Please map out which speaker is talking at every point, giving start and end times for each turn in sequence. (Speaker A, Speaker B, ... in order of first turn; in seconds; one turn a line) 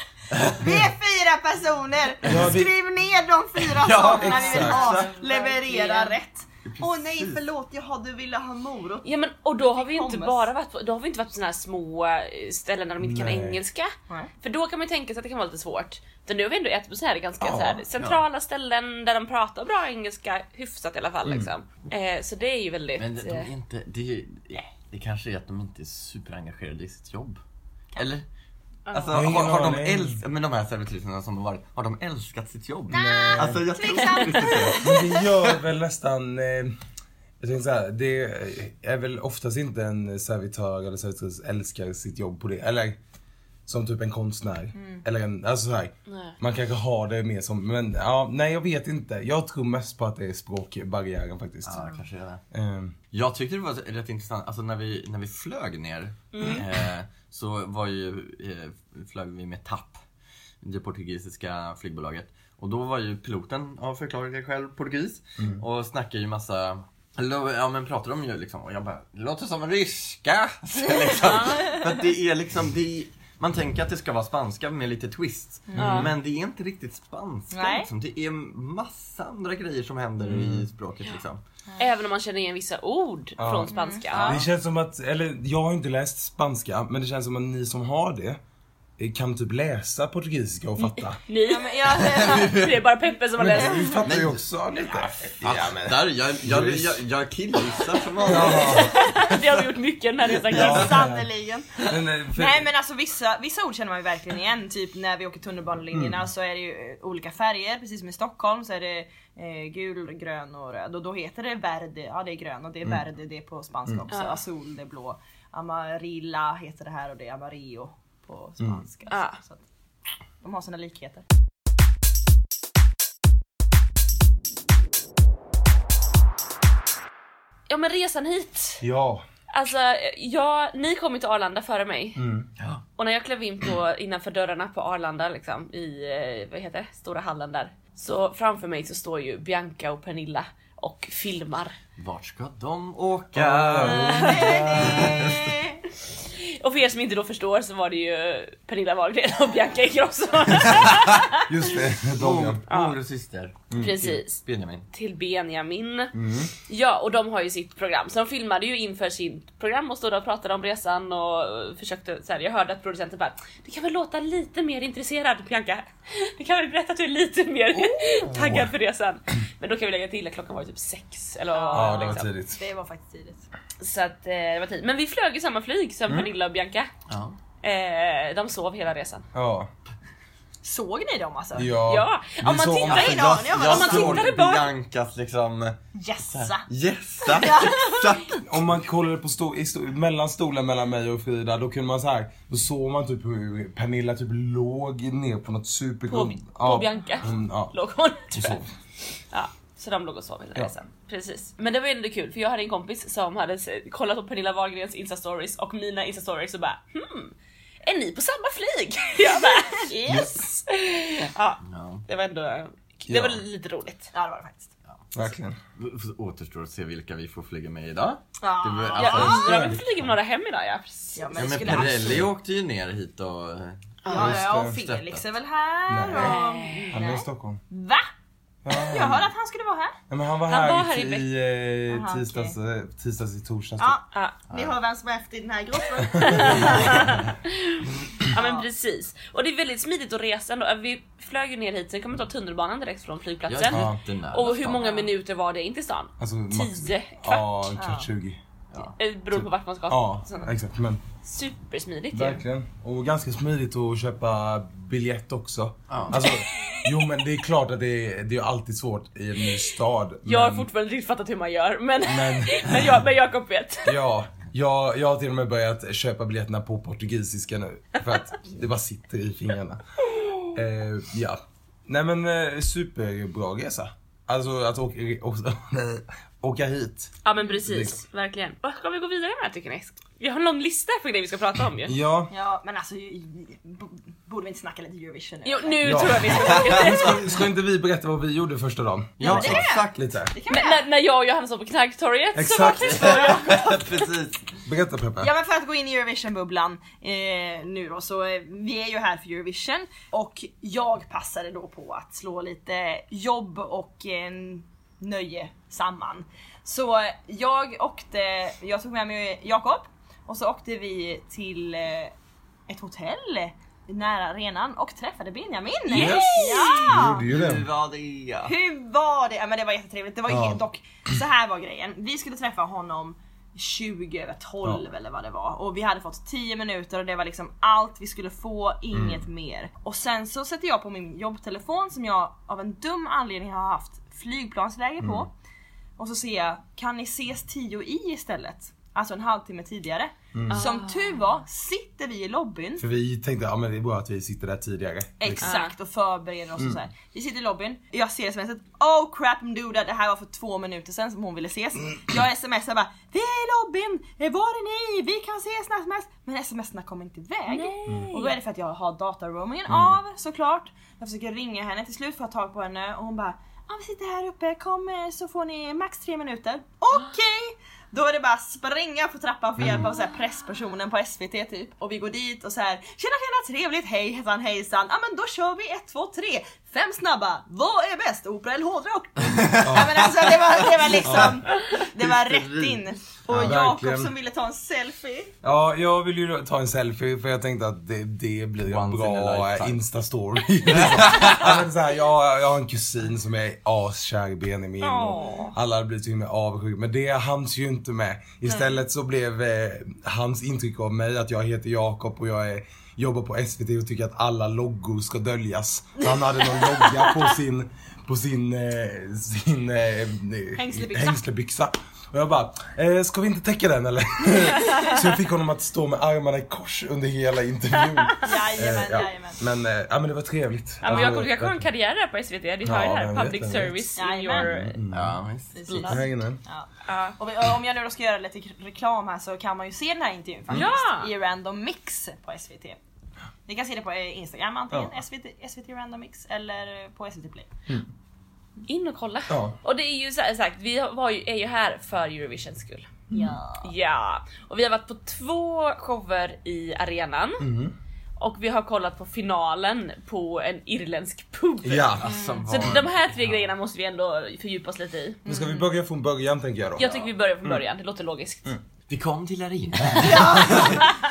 Speaker A: 0.3-0.8
Speaker B: 0.5-9.1
Speaker A: 2.2-2.5
Speaker C: 2.2-2.7
Speaker A: 3.6-5.1
Speaker D: 3.9-6.2
Speaker C: 4.0-4.9
Speaker A: 6.7-7.4
Speaker D: 9.0-23.5
Speaker B: 9.6-10.5
Speaker C: 13.0-13.6
Speaker C: 17.4-17.9
Speaker C: 21.2-21.5
Speaker A: 23.0-27.4
Speaker A: 27.9-28.3
Speaker D: 28.9-29.2
Speaker A: 28.9-35.6
Speaker C: 29.1-30.2
Speaker B: 32.9-35.2
Speaker C: 32.9-36.8
Speaker C: 37.4-43.0
Speaker C: 43.7-51.9
Speaker B: 44.7-45.0
Speaker D: 46.1-46.3
Speaker A: 51.6-52.4
Speaker C: 52.5-53.0
Speaker A: 53.1-60.0
Speaker D: 56.3-56.6
Speaker A: 60.6-81.4
Speaker C: 65.4-65.6
Speaker D: 71.2-71.7
Speaker B: 75.7-76.0
Speaker C: 75.8-76.1
Speaker D: 75.8-76.1
Speaker B: 77.5-77.9
Speaker C: 80.3-80.7
Speaker D: 81.8-84.4
Speaker C: 83.4-88.4
Speaker B: 83.7-84.4
Speaker C: 89.0-91.2
Speaker D: 90.8-94.0
Speaker B: 91.5-92.7
Speaker A: 92.2-92.7
Speaker C: 93.4-97.0
Speaker A: 94.0-99.6
Speaker C: 98.2-99.0
Speaker D: 98.3-101.0
Speaker B: 100.5-119.6
Speaker C: 100.5-101.3
Speaker C: 101.8-102.7
Speaker C: 105.9-106.2
Speaker D: 114.1-114.4
Speaker C: 118.6-118.8
Speaker D: 119.1-119.4
Speaker B: 120.4-121.2
Speaker D: 127.7-128.8
Speaker C: 128.8-129.2
Speaker D: 129.5-132.2
Speaker C: 132.2-132.5
Speaker D: 133.0-141.8
Speaker A: 142.0-145.5
Speaker C: 143.3-145.4
Speaker B: 143.8-145.8
Speaker D: 144.1-144.7
Speaker D: 146.3-151.4
Speaker C: 151.4-152.6
Speaker A: 152.2-154.9
Speaker D: 152.7-153.0
Speaker C: 153.7-154.1
Speaker D: 153.7-154.4
Speaker D: 154.9-156.1
Speaker C: 156.1-156.5
Speaker D: 156.7-172.3
Speaker C: 167.8-168.7
Speaker B: 171.5-173.4
Speaker C: 171.7-172.6
Speaker D: 173.8-176.9
Speaker A: 177.1-177.4
Speaker D: 177.6-179.3
Speaker C: 179.3-179.7
Speaker B: 180.6-181.7
Speaker C: 181.6-183.5
Speaker D: 181.8-184.7
Speaker B: 182.8-184.3
Speaker A: 182.9-188.5
Speaker B: 185.9-186.7
Speaker B: 187.2-188.4
Speaker C: 188.4-197.8
Speaker D: 196.1-198.6
Speaker C: 198.3-198.7
Speaker D: 199.3-214.1
Speaker B: 209.2-210.5
Speaker A: 211.7-212.0
Speaker C: 213.1-213.4
Speaker B: 214.1-214.7
Speaker C: 215.1-215.6
Speaker A: 215.8-219.8
Speaker B: 218.4-219.7
Speaker D: 219.0-221.4
Speaker C: 219.1-219.8
Speaker B: 221.2-222.3
Speaker A: 221.3-225.2
Speaker C: 221.7-222.3
Speaker D: 224.1-224.4
Speaker B: 224.1-228.1
Speaker C: 224.1-224.8
Speaker C: 225.9-227.6
Speaker D: 226.1-227.0
Speaker C: 228.6-229.3
Speaker B: 228.7-230.0
Speaker C: 230.1-234.0
Speaker D: 230.5-231.3
Speaker B: 231.9-232.6
Speaker B: 233.8-237.2
Speaker D: 234.1-234.4
Speaker A: 234.5-234.8
Speaker C: 236.2-237.0
Speaker D: 236.2-247.7
Speaker A: 236.5-237.3
Speaker B: 238.3-238.7
Speaker A: 243.5-244.8
Speaker C: 243.7-244.0
Speaker B: 244.8-245.1
Speaker C: 246.2-248.4
Speaker B: 247.8-248.1
Speaker D: 249.0-250.5
Speaker C: 249.3-251.0
Speaker D: 251.2-252.4
Speaker C: 252.1-260.7
Speaker A: 255.9-256.2
Speaker D: 260.3-264.0
Speaker C: 262.1-263.0
Speaker C: 263.9-269.8
Speaker C: 270.5-278.0
Speaker D: 277.2-281.9
Speaker C: 281.9-282.3
Speaker B: 282.3-287.0
Speaker D: 285.4-287.3
Speaker C: 285.8-290.3
Speaker A: 289.2-290.1
Speaker B: 289.2-290.8
Speaker D: 290.5-293.7
Speaker C: 292.3-293.2
Speaker A: 292.9-294.6
Speaker B: 292.9-293.8
Speaker C: 294.6-295.3
Speaker B: 295.2-312.1
Speaker B: 312.7-317.3
Speaker D: 315.9-317.1
Speaker C: 315.9-317.6
Speaker A: 317.3-318.5
Speaker B: 318.4-335.3
Speaker C: 320.3-320.6
Speaker C: 328.9-329.3
Speaker C: 335.0-335.3
Speaker B: 336.0-342.8
Speaker C: 340.3-340.6
Speaker D: 340.5-341.2
Speaker C: 342.8-345.5
Speaker B: 345.2-385.3
Speaker D: 345.4-345.7
Speaker D: 357.5-358.4
Speaker C: 369.6-369.8
Speaker A: 379.3-380.0
Speaker C: 379.6-380.1
Speaker A: 380.8-382.8
Speaker C: 381.0-381.4
Speaker C: 383.3-384.1
Speaker C: 385.4-421.6
Speaker A: 388.6-389.8
Speaker A: 390.7-391.5
Speaker D: 394.8-395.6
Speaker D: 410.7-411.1
Speaker B: 418.2-419.4
Speaker D: 420.8-424.8
Speaker C: 422.6-425.2
Speaker B: 424.0-424.5
Speaker A: 424.9-425.7
Speaker B: 425.5-432.8
Speaker D: 425.7-426.1
Speaker C: 425.8-426.4
Speaker D: 426.9-427.2
Speaker D: 430.5-431.1
Speaker B: 433.5-437.5
Speaker D: 438.7-442.9
Speaker C: 439.3-439.6
Speaker B: 443.1-443.7
Speaker D: 443.6-447.5
Speaker C: 447.4-447.8
Speaker D: 448.2-455.2
Speaker C: 451.6-452.1
Speaker A: 452.0-453.0
Speaker B: 452.1-452.4
Speaker B: 455.2-455.7
Speaker C: 455.3-456.9
Speaker D: 456.8-458.5
Speaker A: 458.9-460.9
Speaker B: 460.0-460.8
Speaker C: 460.0-460.8